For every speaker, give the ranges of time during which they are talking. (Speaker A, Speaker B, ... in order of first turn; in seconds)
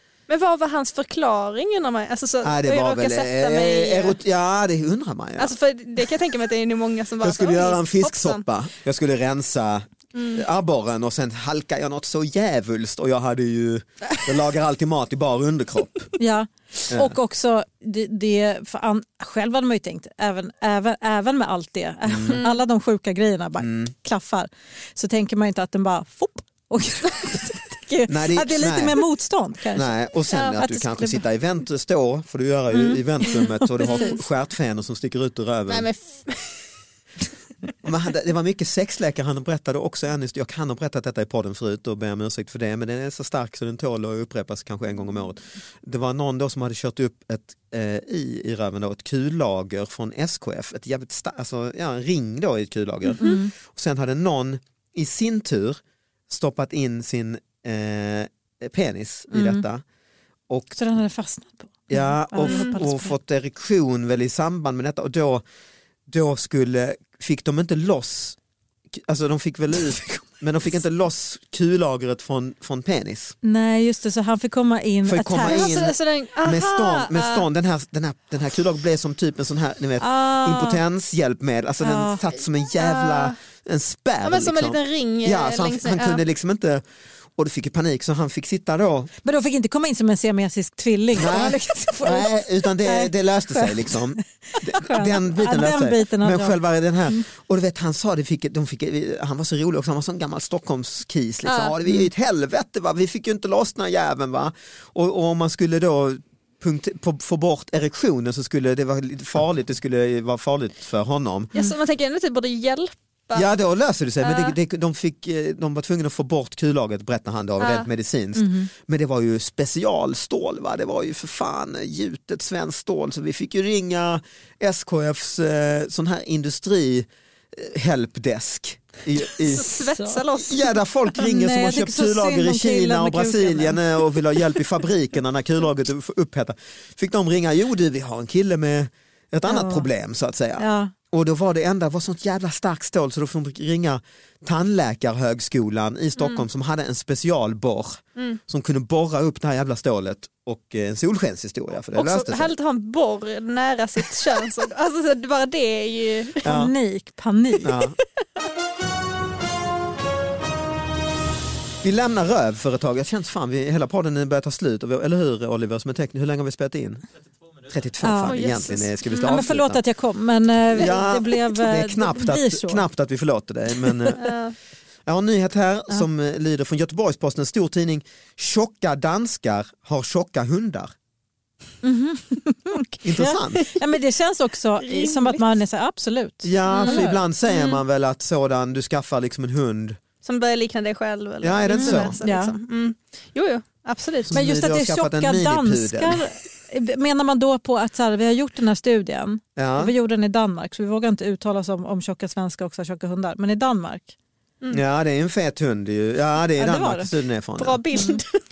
Speaker A: 0.3-4.2, 5.4-8.4, 10.1-10.4, 22.2-22.6, 30.3-30.6, 32.7-34.2, 35.7-36.5, 62.4-62.7, 75.4-77.5, 82.8-83.3, 84.2-86.2, 101.4-101.8, 111.5-113.5, 114.2-114.5, 117.6-117.9, 129.3-130.8, 146.2-146.4, 151.9-156.5, 168.2-169.4, 174.2-174.5, 184.8-185.4, 186.7-187.8, 190.2-194.3, 207.6-208.4
Speaker B: 2.4-5.5, 7.2-16.1, 16.9-17.1, 22.1-22.4, 23.6-23.9, 28.1-29.0, 29.7-35.9, 37.8-59.8, 60.5-60.8, 61.9-65.4, 66.1-68.4, 68.9-73.3, 75.0-86.8, 87.3-89.1, 91.2-111.5, 113.3-129.8, 130.3-152.5, 156.4-156.7, 157.6-158.0, 161.8-167.0, 167.6-169.8, 170.7-174.3, 175.1-180.9, 183.0-183.6, 186.4-190.0, 191.4-192.2, 194.2-196.2, 199.6-199.9, 204.7-207.8
Speaker C: 16.2-31.2, 33.4-34.2, 53.2-53.5, 59.3-59.6, 60.7-63.1, 73.4-75.7, 80.0-80.8, 81.8-82.2, 89.2-96.6, 118.4-118.7, 129.8-130.2, 131.2-134.0, 139.4-139.9, 140.6-140.9, 156.4-157.7, 168.0-168.4, 169.2-172.8, 173.8-174.3, 181.8-187.2, 191.7-192.5, 194.3-204.1, 206.6-207.1, 207.9-208.2